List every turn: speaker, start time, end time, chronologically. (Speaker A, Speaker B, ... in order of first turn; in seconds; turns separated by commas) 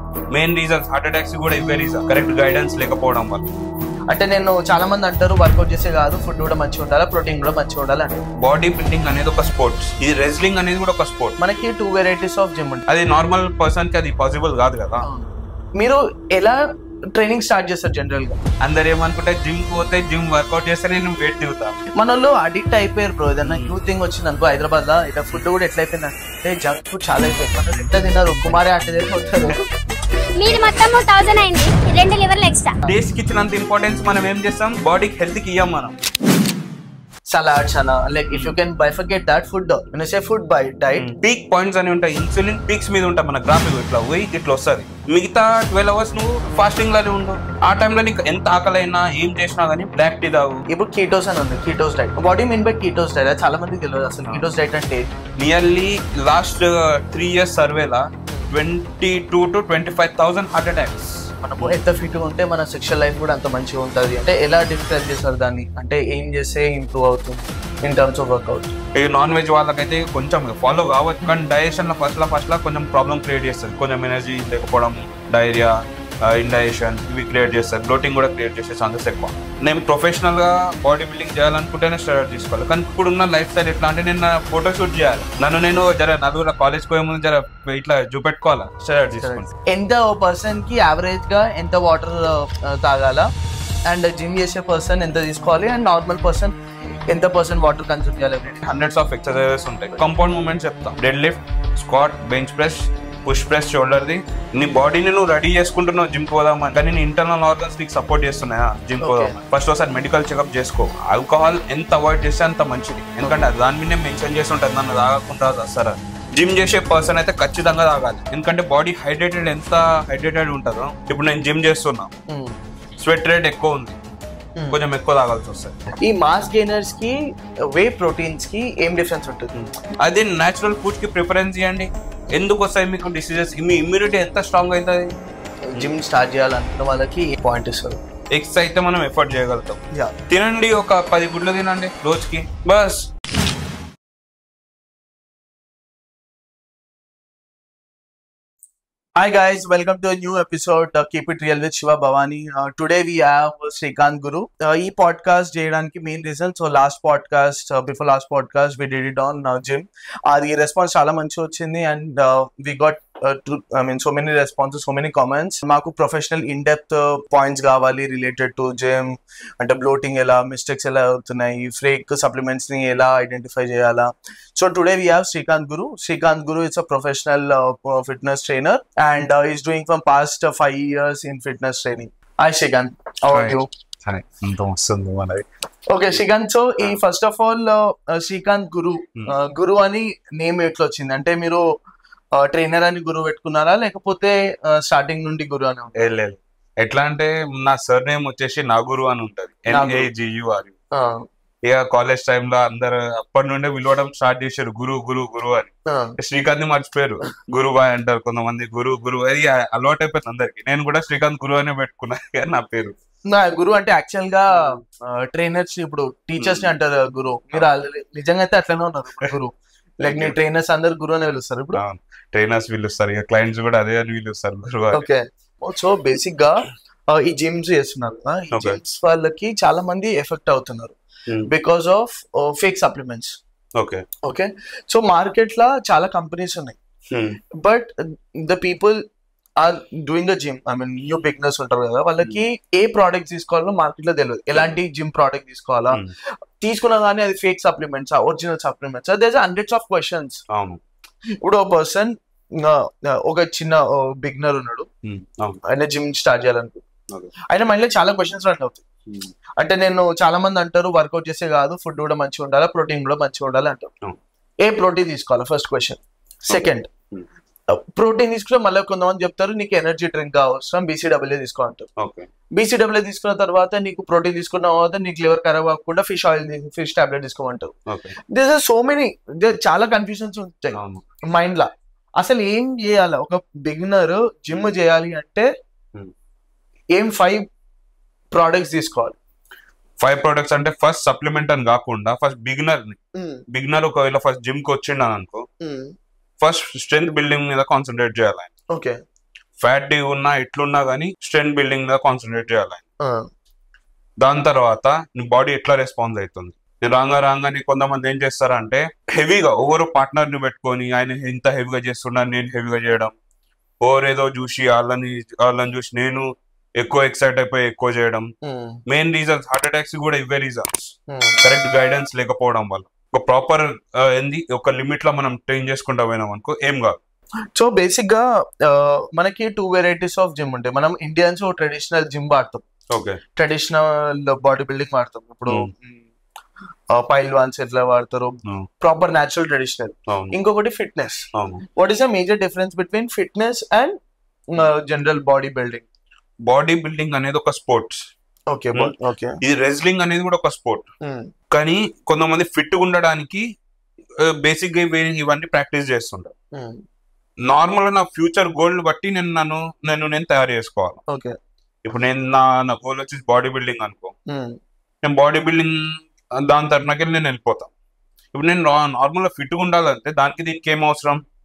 Speaker A: 0.3-3.5, Speaker B: 4.1-8.3, Speaker A: 8.4-11.4, Speaker B: 11.4-12.9, Speaker A: 12.9-15.1, Speaker B: 15.0-16.6, Speaker B: 17.1-18.4, Speaker A: 18.6-21.8, Speaker B: 22.0-29.6, Speaker A: 23.4-23.7, Speaker C: 30.4-32.8, Speaker A: 32.9-35.9, Speaker B: 37.3-41.1, Speaker A: 41.0-50.6, Speaker B: 50.7-55.0, Speaker A: 55.4-61.8, Speaker B: 61.4-68.7, Speaker A: 69.0-89.5, Speaker B: 89.2-93.3, Speaker B: 93.9-96.5, Speaker B: 97.1-98.6, Speaker A: 98.6-122.1, Speaker B: 109.0-109.4, Speaker B: 122.3-122.5, Speaker A: 123.0-124.0, Speaker A: 124.7-125.8, Speaker B: 126.0-127.2, Speaker B: 127.7-129.5, Speaker A: 129.5-135.1, Speaker B: 135.7-138.0, Speaker A: 138.3-143.1, Speaker B: 149.2-183.7, Speaker A: 183.3-185.4, Speaker B: 185.9-191.6, Speaker B: 192.4-196.0, Speaker A: 196.0-200.7, Speaker B: 199.7-200.1, Speaker B: 200.9-201.3, Speaker A: 201.7-212.9, Speaker B: 205.9-206.2, Speaker B: 213.3-221.8, Speaker A: 216.4-216.8, Speaker A: 220.0-220.4, Speaker A: 221.8-225.0, Speaker B: 224.9-231.0, Speaker A: 228.5-228.8, Speaker B: 231.5-233.4, Speaker A: 233.8-234.0, Speaker B: 234.2-236.8, Speaker A: 237.1-237.4, Speaker B: 237.6-239.0, Speaker B: 239.6-246.0, Speaker B: 246.6-250.4, Speaker A: 250.5-250.8, Speaker B: 251.4-254.9, Speaker A: 255.0-255.6, Speaker B: 255.7-256.8, Speaker B: 257.5-258.8, Speaker B: 259.6-263.9, Speaker B: 264.6-266.9, Speaker A: 266.5-267.3, Speaker B: 267.7-271.9, Speaker A: 272.0-272.3, Speaker B: 272.6-277.7, Speaker A: 277.9-278.2, Speaker B: 278.3-280.8, Speaker A: 280.8-281.0, Speaker B: 281.3-285.5, Speaker B: 286.9-287.4, Speaker B: 288.3-289.2, Speaker A: 290.0-293.0, Speaker B: 293.1-293.4, Speaker A: 293.5-295.4, Speaker B: 295.6-295.9, Speaker A: 296.4-298.5, Speaker A: 299.6-302.8, Speaker A: 304.2-313.1, Speaker A: 313.8-318.3, Speaker B: 318.4-318.8, Speaker A: 318.9-327.0, Speaker B: 321.1-321.4, Speaker B: 327.6-332.6, Speaker A: 332.9-333.2, Speaker B: 333.4-336.0, Speaker B: 336.9-341.3, Speaker A: 340.1-340.3, Speaker A: 341.3-341.6, Speaker B: 341.8-344.0, Speaker B: 344.5-345.9, Speaker A: 346.5-348.0, Speaker B: 348.5-349.4, Speaker A: 348.8-350.9, Speaker B: 351.0-351.3, Speaker A: 351.5-353.4, Speaker A: 354.2-356.3, Speaker A: 357.5-361.0, Speaker B: 361.1-361.3, Speaker A: 361.9-364.1, Speaker B: 364.3-364.6, Speaker A: 365.0-367.7, Speaker A: 368.3-371.2